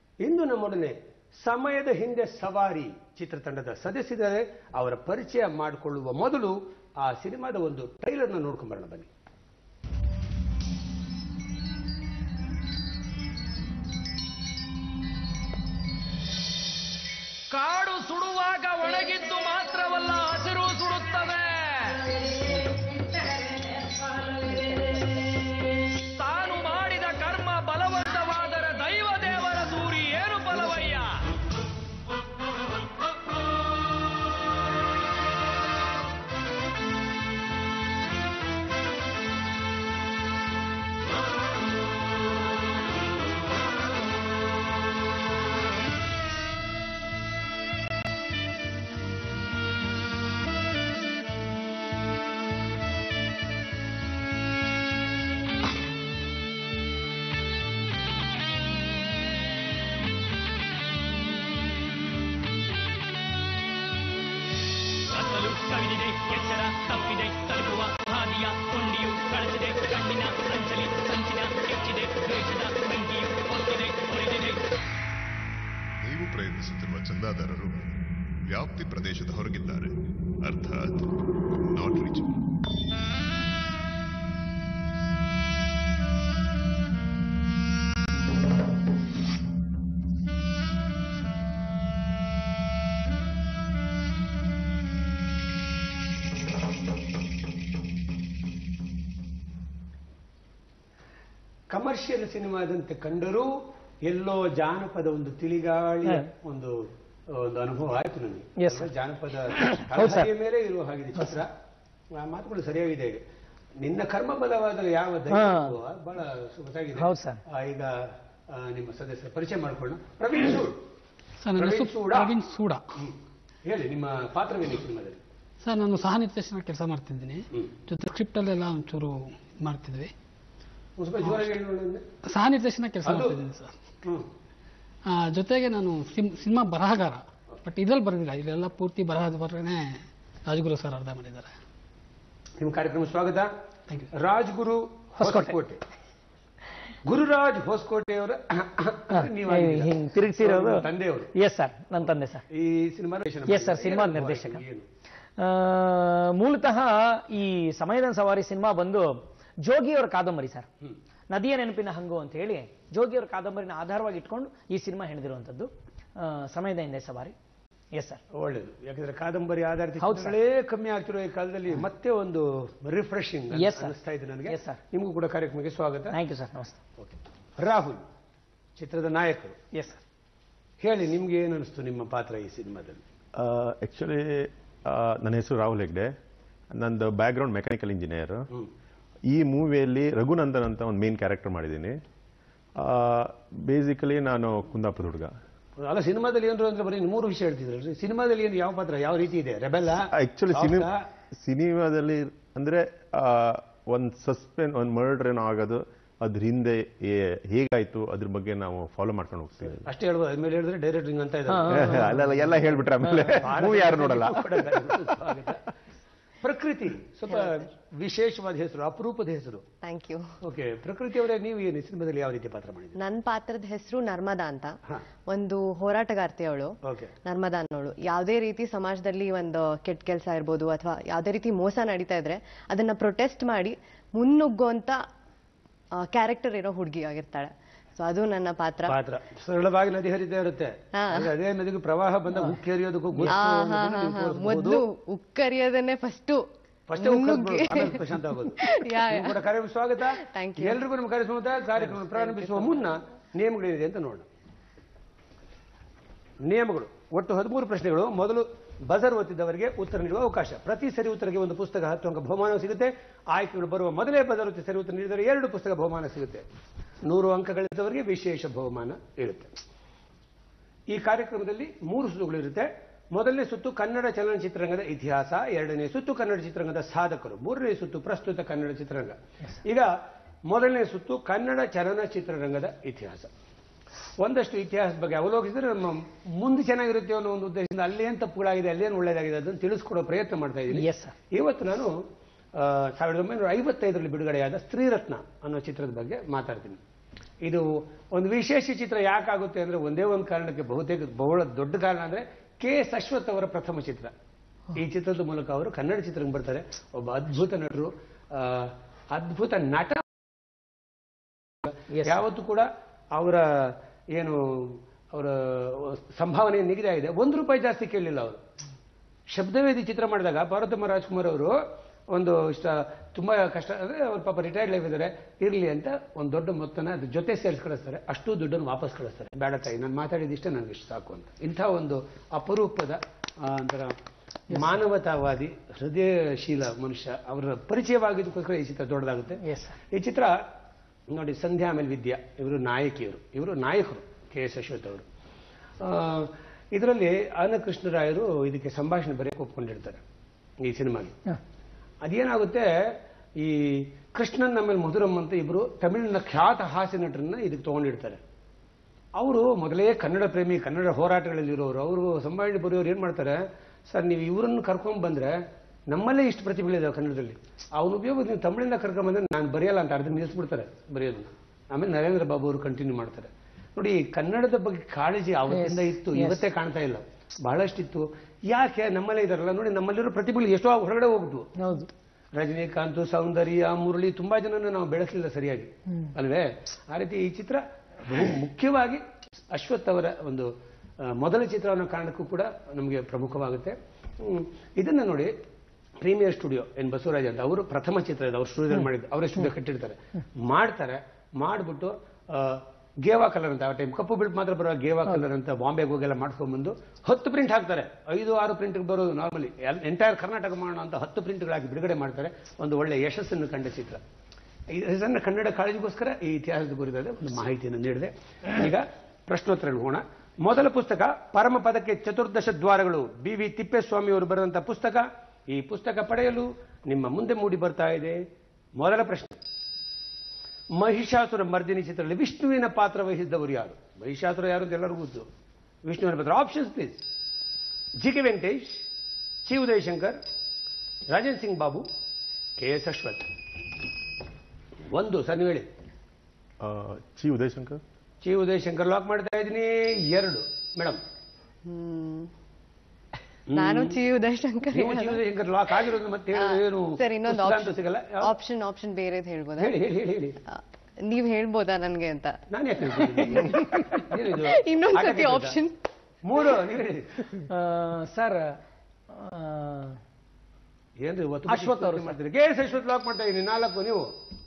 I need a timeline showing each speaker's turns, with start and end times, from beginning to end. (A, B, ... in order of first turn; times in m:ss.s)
0:00.2-0:09.1 A
0:17.5-0:22.0 B
0:26.1-0:31.2 B
1:05.1-1:14.6 B
1:16.0-1:18.0 C
1:18.5-1:22.4 C
1:41.7-1:43.5 A
1:44.0-1:51.5 A
1:48.6-1:48.9 D
1:49.6-1:50.3 D
1:52.1-1:53.2 A
1:53.8-2:00.8 A
1:55.3-1:55.8 D
1:57.0-1:57.4 D
2:01.4-2:02.8 E
2:01.6-2:02.3 A
2:03.0-2:05.2 A
2:05.6-2:10.1 E
2:11.0-2:12.0 A
2:11.2-2:11.5 E
2:12.2-2:13.8 E
2:13.0-2:13.4 A
2:15.1-2:21.5 E
2:22.6-2:23.5 A
2:24.1-2:25.8 A
2:25.2-2:25.5 D
2:27.0-2:31.3 A
2:29.1-2:32.4 D
2:32.5-2:34.8 A
2:33.5-2:34.6 D
2:35.4-2:40.7 D
2:41.3-2:47.3 D
2:47.9-2:48.2 D
2:48.3-2:56.2 A
2:50.0-2:50.3 D
2:53.5-2:53.9 D
2:54.5-2:54.8 D
2:56.1-2:56.8 D
2:57.0-2:58.0 A
2:58.8-2:59.6 A
2:59.7-3:00.0 D
3:00.8-3:03.0 A
3:03.3-3:06.2 F
3:06.7-3:08.5 F
3:09.3-3:12.0 F
3:12.8-3:15.4 F
3:15.8-3:21.1 A
3:20.0-3:29.8 F
3:29.8-3:32.4 A
3:31.5-3:33.4 D
3:31.6-3:34.9 F
3:33.3-3:35.7 A
3:36.4-3:39.7 A
3:37.3-3:37.7 G
3:39.8-3:40.3 G
3:40.4-3:43.0 A
3:43.0-3:55.0 G
3:46.8-3:47.1 A
3:55.9-3:58.9 G
3:58.9-4:04.8 A
4:00.9-4:01.3 G
4:03.2-4:06.4 G
4:06.9-4:14.3 A
4:07.0-4:09.4 G
4:10.1-4:10.8 G
4:12.2-4:12.7 G
4:16.4-4:26.4 A
4:27.0-4:29.5 A
4:30.9-4:39.9 A
4:40.5-4:43.3 A
4:44.2-4:52.0 A
4:50.7-4:51.1 D
4:52.5-4:56.8 A
4:57.4-5:04.1 A
5:04.8-5:10.1 A
5:11.6-5:18.4 A
5:11.9-5:12.2 D
5:19.3-5:21.6 A
5:22.1-5:34.0 A
5:34.5-5:40.4 A
5:34.5-5:34.8 D
5:39.4-5:39.8 D
5:41.1-5:45.0 A
5:45.8-5:50.0 A
5:50.6-5:51.2 A
5:52.0-5:58.2 A
5:59.2-6:05.4 A
6:05.9-6:21.5 A
6:15.5-6:16.4 D
6:21.6-6:21.9 D
6:22.4-6:35.3 A
6:36.0-6:54.0 A
6:54.7-7:08.2 A
7:08.8-7:09.4 A
7:10.8-7:15.3 A
7:15.8-7:17.0 A
7:18.0-7:18.8 A
7:19.4-7:20.2 A
7:21.1-7:21.9 A
7:22.6-7:23.3 A
7:24.9-7:25.7 A
7:26.6-7:27.8 F
7:28.2-7:31.0 A
7:31.6-7:32.3 G
7:33.5-7:34.0 A
7:33.5-7:35.2 G
7:34.7-7:38.3 A
7:36.4-7:39.8 G
7:39.6-7:40.4 A
7:40.5-7:45.8 G
7:42.5-7:45.6 A
7:46.2-7:47.3 A
7:47.4-7:48.6 D
7:49.1-7:50.0 D
7:51.0-7:54.1 A
7:51.5-7:52.2 D